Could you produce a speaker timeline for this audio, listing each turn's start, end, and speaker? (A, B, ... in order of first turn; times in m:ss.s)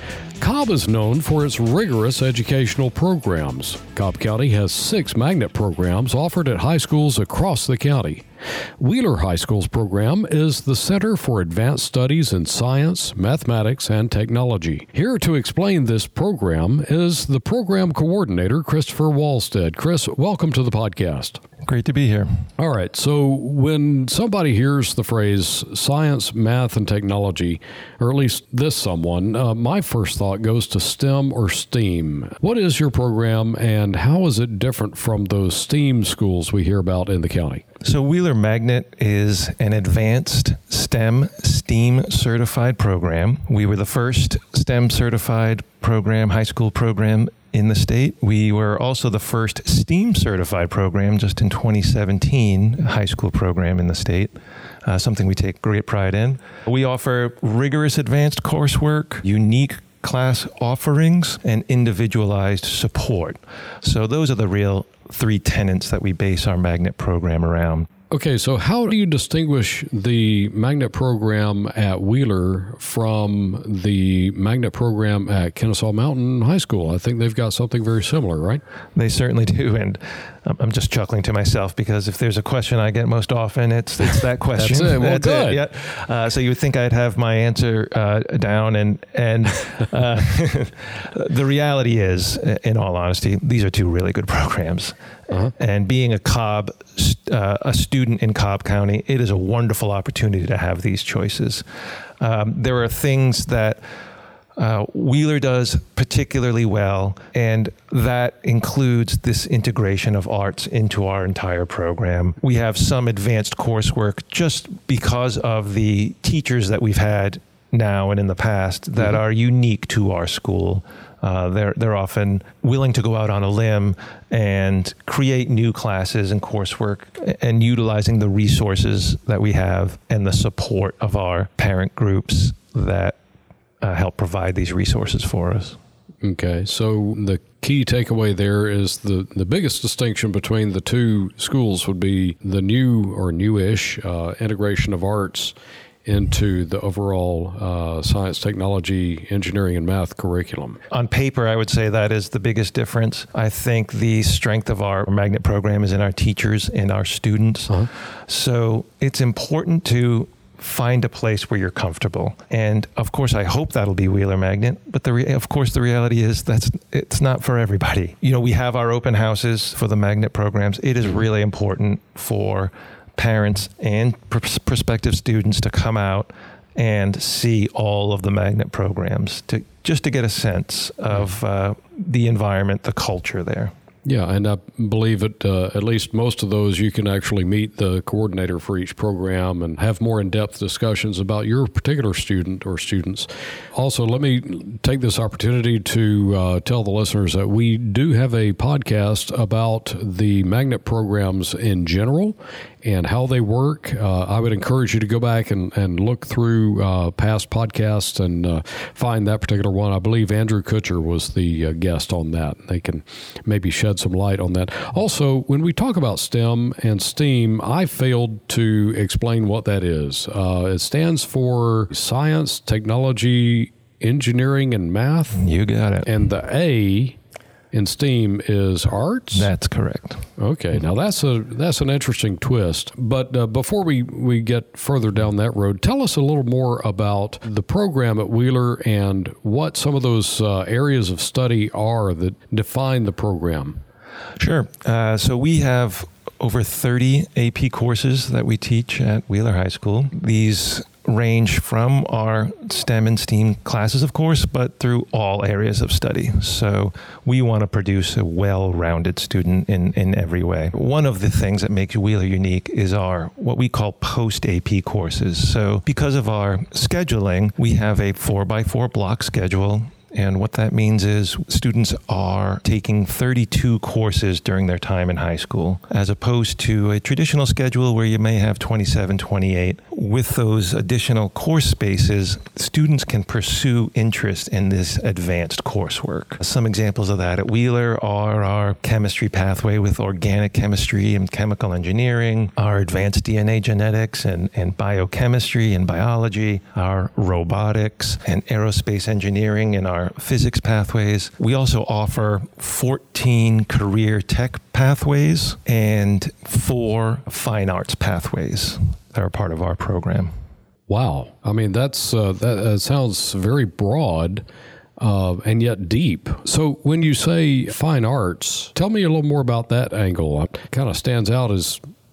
0:00.4-0:08.2 A
0:08.8-0:21.4 A
0:21.6-0:22.3 B
0:22.6-0:37.6 A
0:37.8-0:54.3 B
0:54.8-1:07.9 B
1:08.1-1:18.6 A
1:19.0-1:41.6 B
1:24.6-1:25.6 A
1:42.2-1:43.8 B
1:44.6-2:13.2 B
2:13.8-2:15.8 B
2:16.2-2:25.5 A
2:26.0-2:30.8 A
2:30.9-3:03.7 B
3:04.1-3:45.4 A
3:45.3-3:46.1 B
3:46.0-3:47.2 A
3:47.7-3:49.5 A
3:49.4-3:50.2 B
3:50.4-4:03.8 A
4:04.4-5:10.3 B
5:10.9-5:14.4 A
5:15.0-5:21.8 A